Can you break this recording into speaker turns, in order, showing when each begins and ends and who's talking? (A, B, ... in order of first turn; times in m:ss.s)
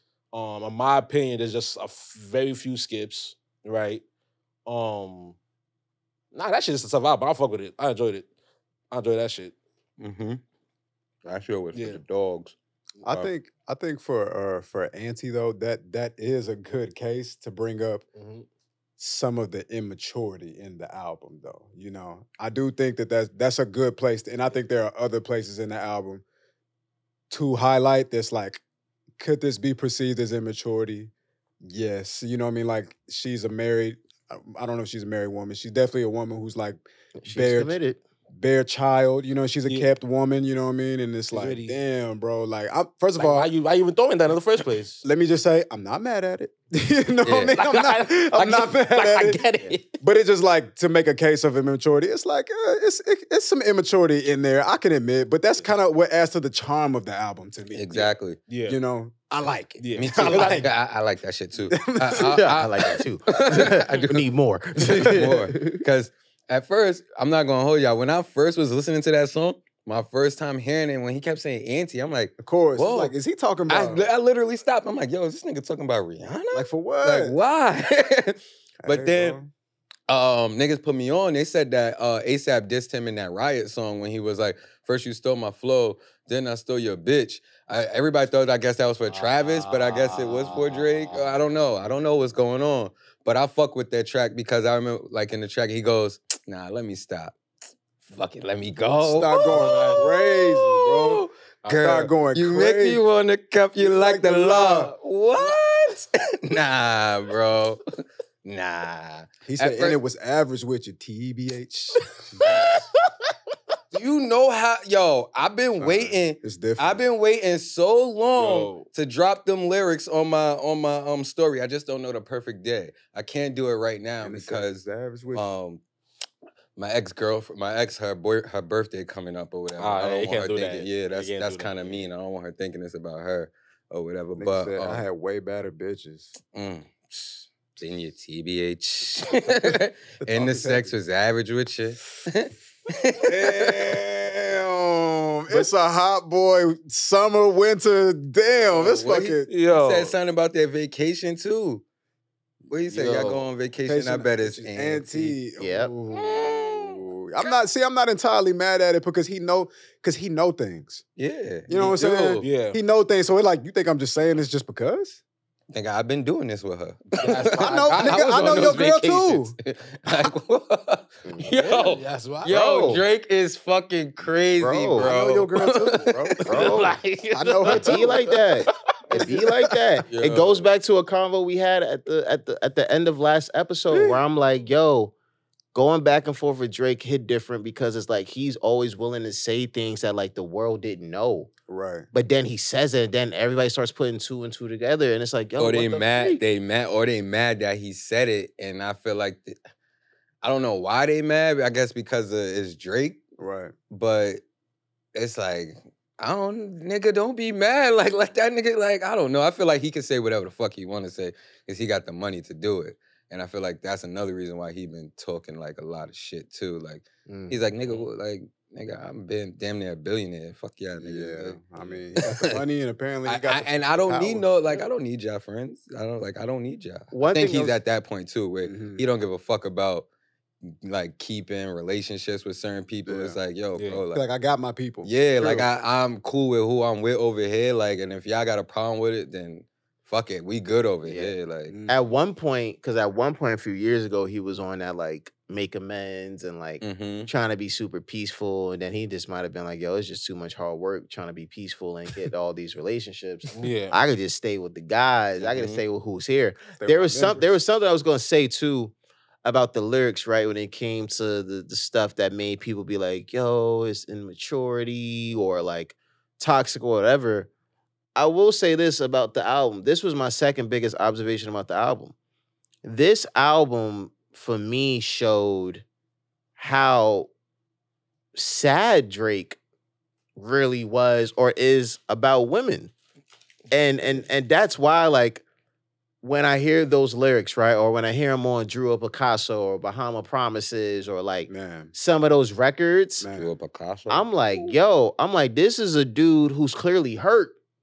0:00.3-0:04.0 A
0:04.6-0:05.4 A
0:06.3-0:08.3 A
0:08.9-0:09.5 A
0:10.0-0:10.4 B
0:11.2-0:12.5 B
0:11.7-0:12.0 A
0:13.0-0:18.0 C
0:18.1-0:18.4 A
0:19.0-0:26.2 C
0:27.3-0:28.6 C
0:29.2-0:31.1 C
0:31.6-0:37.8 C
0:37.2-0:38.0 D
0:38.3-0:43.5 C
0:41.3-0:41.8 A
0:43.2-0:45.0 A
0:45.0-0:49.4 C
0:47.2-0:47.6 B
0:47.5-0:50.0 A
0:50.0-0:58.1 C
0:57.7-0:58.4 B
0:58.5-0:58.8 A
0:58.7-1:00.7 C
0:59.8-1:00.6 A
1:00.0-1:04.3 B
1:01.7-1:02.4 C
1:02.2-1:05.4 D
1:04.8-1:13.1 B
1:04.9-1:05.8 C
1:12.4-1:14.0 C
1:13.7-1:19.4 B
1:16.5-1:17.3 C
1:18.8-1:19.5 C
1:20.1-1:37.3 B
1:29.1-1:31.4 A
1:38.1-1:47.8 B
1:39.0-1:43.0 C
1:39.6-1:40.0 A
1:43.8-1:44.9 C
1:48.4-1:50.0 B
1:49.4-1:52.5 C
1:52.4-1:52.8 B
1:53.9-2:04.8 B
1:55.8-1:57.0 C
1:58.3-1:58.9 A
2:04.2-2:05.5 C
2:05.3-2:05.8 B
2:06.8-2:15.0 B
2:09.8-2:12.0 A
2:14.4-2:16.3 C
2:16.4-2:24.0 B
2:20.2-2:20.9 C
2:23.2-2:29.5 C
2:28.6-2:31.8 B
2:29.5-2:30.1 A
2:32.7-2:35.4 B
2:32.9-2:33.5 A
2:33.8-2:41.0 C
2:35.6-2:35.9 D
2:36.1-2:37.5 B
2:41.2-2:42.5 B
2:41.7-2:45.2 C
2:42.4-2:42.8 A
2:45.7-2:56.7 B
2:47.1-2:48.9 A
2:47.6-2:49.5 C
2:51.2-2:51.8 D
2:51.6-2:52.6 A
2:52.5-2:53.0 D
2:54.6-2:55.1 D
2:55.0-2:56.7 C
2:56.4-2:56.9 D
2:56.5-2:58.4 A
2:57.3-2:58.2 C
2:57.6-3:05.1 D
2:59.1-2:59.5 C
3:00.1-3:00.7 B
3:03.9-3:04.2 C
3:05.7-3:11.5 D
3:11.7-3:12.0 C
3:12.1-3:16.4 D
3:15.6-3:19.6 B
3:20.4-3:23.2 B
3:23.4-3:23.7 C
3:23.9-3:24.4 B
3:25.1-3:42.6 B
3:37.3-3:37.6 D
3:41.0-3:44.5 C
3:43.2-3:50.1 B
3:47.1-3:47.8 D
3:48.6-3:49.0 C
3:50.8-3:54.2 B
3:53.0-3:53.4 C
3:53.8-3:54.0 A
3:54.1-3:55.7 C
3:55.0-4:01.7 B
4:01.0-4:01.3 D
4:01.7-4:02.0 C
4:01.9-4:18.9 D
4:06.8-4:07.3 B
4:13.5-4:14.0 A
4:15.4-4:15.8 B
4:16.8-4:17.6 C
4:19.4-4:27.5 D
4:28.2-4:32.1 D
4:32.8-4:35.8 D
4:36.6-4:37.3 D
4:38.3-4:39.6 D
4:40.4-4:42.9 D
4:43.7-4:45.4 D
4:46.2-4:53.3 D
4:51.5-4:51.9 C
4:53.2-4:53.5 C
4:53.3-4:54.3 B
4:54.1-4:57.5 D